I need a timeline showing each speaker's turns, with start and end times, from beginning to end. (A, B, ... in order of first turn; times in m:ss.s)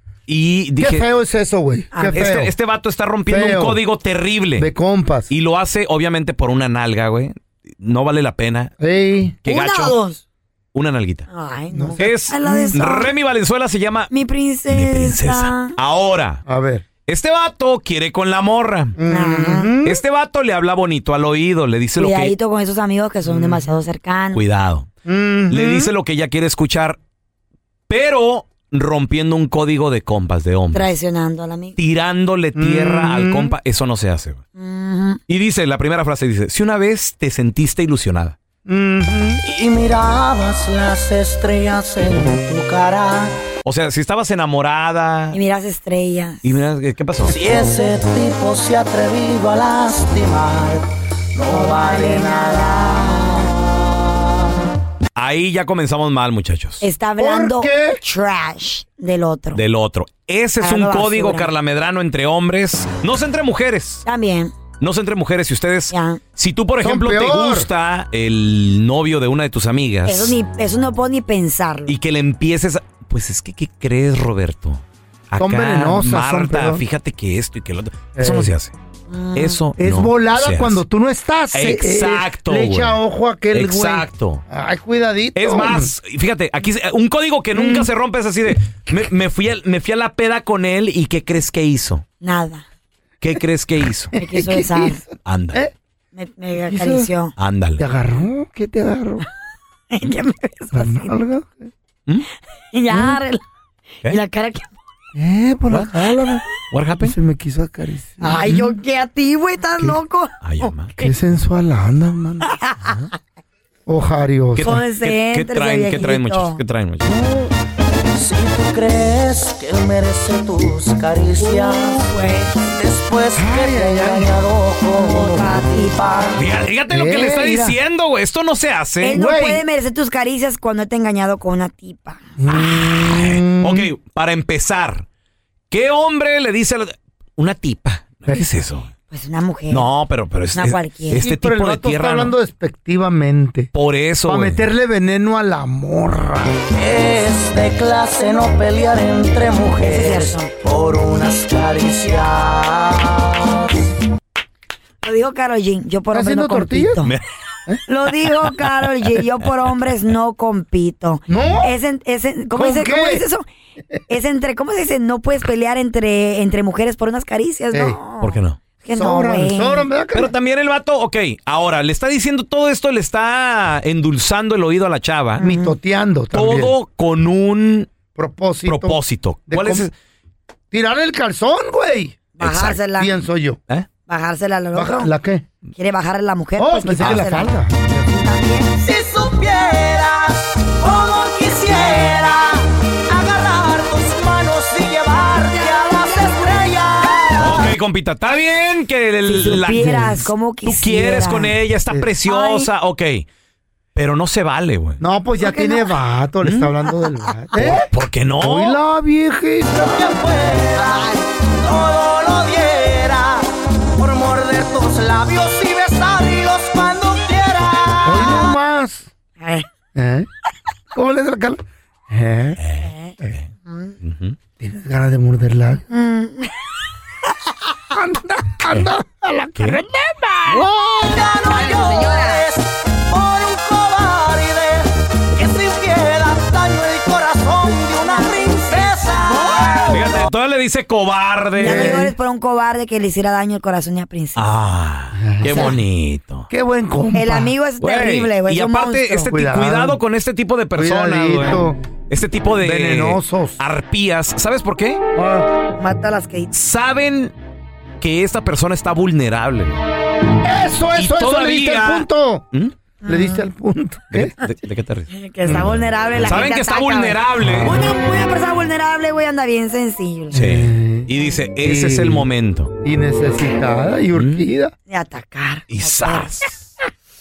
0:00.3-0:01.0 A
0:00.8-0:02.5 B
0:01.9-0:02.2 C
0:02.1-0:04.7 A
0:03.3-0:03.8 B
0:04.6-0:05.3 B
0:05.3-0:08.7 A
0:08.8-0:09.3 B
0:09.4-0:10.0 A
0:09.4-0:10.2 C
0:10.7-0:11.3 A
0:11.3-0:13.1 C
0:11.7-0:12.8 B
0:12.0-0:14.1 A
0:14.1-0:15.7 C
0:14.7-0:16.4 A
0:16.4-0:16.8 B
0:17.1-0:19.0 A
0:19.0-0:20.0 B
0:19.1-0:19.7 C
0:19.8-0:22.3 A
0:22.0-0:24.4 C
0:23.2-0:23.6 B
0:24.3-0:24.9 A
0:25.0-0:25.9 B
0:25.5-0:27.0 A
0:27.9-0:30.9 A
0:30.7-0:31.8 C
0:31.8-0:34.4 A
0:32.6-0:33.5 B
0:34.6-0:35.2 C
0:35.3-0:38.4 A
0:38.6-0:39.4 B
0:39.4-0:43.4 D
0:43.6-0:45.4 A
0:45.3-0:46.4 C
0:46.4-0:47.3 A
0:47.2-0:53.4 D
0:51.5-0:53.4 C
0:55.2-0:56.8 A
0:56.8-0:59.6 C
0:57.2-0:58.0 B
0:59.5-1:04.0 A
1:00.6-1:01.5 C
1:04.0-1:04.5 C
1:04.8-1:10.4 A
1:05.9-1:06.2 C
1:06.8-1:07.7 B
1:10.1-1:11.9 C
1:11.9-1:18.7 A
1:15.4-1:16.8 B
1:18.2-1:18.5 B
1:19.1-1:19.6 C
1:19.3-1:20.8 A
1:19.8-1:25.9 B
1:21.5-1:23.0 A
1:23.5-1:24.4 A
1:25.3-1:32.0 A
1:27.6-1:27.8 B
1:32.2-1:32.6 C
1:33.2-1:34.1 A
1:34.2-1:35.0 C
1:34.2-1:35.7 B
1:35.2-1:35.6 A
1:36.1-1:37.3 C
1:36.7-1:37.1 B
1:37.4-1:37.8 A
1:37.8-1:39.2 B
1:39.9-1:41.1 C
1:40.7-1:41.7 B
1:42.7-1:43.4 C
1:42.9-1:43.2 B
1:44.0-1:44.7 C
1:45.1-1:46.4 B
1:46.7-1:47.1 A
1:47.0-1:48.7 B
1:48.2-1:51.1 C
1:50.4-1:50.9 A
1:51.0-1:52.5 B
1:52.5-1:52.9 C
1:53.9-1:54.8 B
1:54.6-1:57.1 A
1:54.6-1:56.6 C
1:57.0-1:57.5 B
1:58.1-2:02.0 D
2:01.4-2:02.5 C
2:02.5-2:06.4 D
2:03.4-2:04.3 B
2:04.9-2:06.4 C
2:06.4-2:09.2 A
2:06.9-2:07.8 B
2:09.0-2:12.2 C
2:09.1-2:09.6 B
2:12.4-2:13.9 B
2:12.5-2:15.0 A
2:15.7-2:18.9 A
2:19.1-2:19.9 C
2:19.7-2:22.3 A
2:20.5-2:21.2 C
2:21.2-2:23.7 B
2:23.7-2:24.6 A
2:24.2-2:26.6 B
2:26.7-2:33.6 D
2:29.8-2:30.5 C
2:35.0-2:37.1 C
2:36.1-2:37.0 B
2:37.9-2:43.4 C
2:41.3-2:41.7 B
2:42.5-2:43.2 B
2:44.1-2:49.9 C
2:47.7-2:48.0 B
2:48.2-2:48.6 A
2:48.9-2:50.3 B
2:50.1-2:55.4 A
2:55.4-2:55.7 C
2:55.4-2:56.7 B
2:56.3-2:57.9 A
2:58.2-2:59.0 B
2:58.6-2:59.9 A
2:59.5-2:59.9 B
3:00.7-3:02.2 B
3:02.4-3:03.1 C
3:02.4-3:02.8 A
3:03.0-3:03.6 B
3:04.1-3:05.1 C
3:04.7-3:05.5 B
3:05.8-3:07.5 C
3:06.6-3:08.3 B
3:07.0-3:07.3 A
3:08.2-3:08.7 C
3:08.8-3:17.7 D
3:15.8-3:16.4 C
3:17.4-3:23.3 A
3:19.3-3:21.5 C
3:22.2-3:22.7 C
3:23.9-3:25.0 A
3:25.0-3:27.8 B
3:25.4-3:25.9 C
3:27.6-3:28.8 A
3:28.4-3:29.9 B
3:29.7-3:33.4 D
3:30.8-3:31.2 C
3:34.0-3:38.3 D
3:38.0-3:39.1 B
3:39.4-3:39.7 C
3:39.9-3:40.3 B
3:40.9-3:42.6 B
3:42.6-3:43.4 A
3:42.8-3:43.1 C
3:44.0-3:44.4 A
3:44.6-3:45.8 B
3:45.9-3:46.5 C
3:47.9-3:50.6 B
3:50.9-4:00.2 D
3:51.5-3:52.4 C
3:58.0-3:59.9 C
3:59.9-4:02.0 A
4:01.6-4:04.4 C
4:01.6-4:02.1 B
4:04.4-4:06.5 A
4:05.1-4:05.8 B
4:06.5-4:07.5 B
4:07.1-4:09.3 C
4:07.8-4:15.0 A
4:09.3-4:10.0 B
4:10.8-4:11.8 B
4:12.6-4:13.6 B
4:15.2-4:15.5 B
4:15.8-4:16.5 C
4:16.5-4:17.3 A
4:18.0-4:19.7 A
4:20.4-4:22.4 B
4:21.0-4:22.7 A
4:23.0-4:23.5 C
4:23.0-4:24.3 B
4:24.1-4:27.8 A
4:25.1-4:30.3 C
4:27.4-4:27.7 B
4:30.3-4:32.3 B
4:30.3-4:32.7 A
4:32.8-4:34.7 B
4:34.2-4:34.4 A
4:34.9-4:36.3 C
4:35.7-4:36.6 A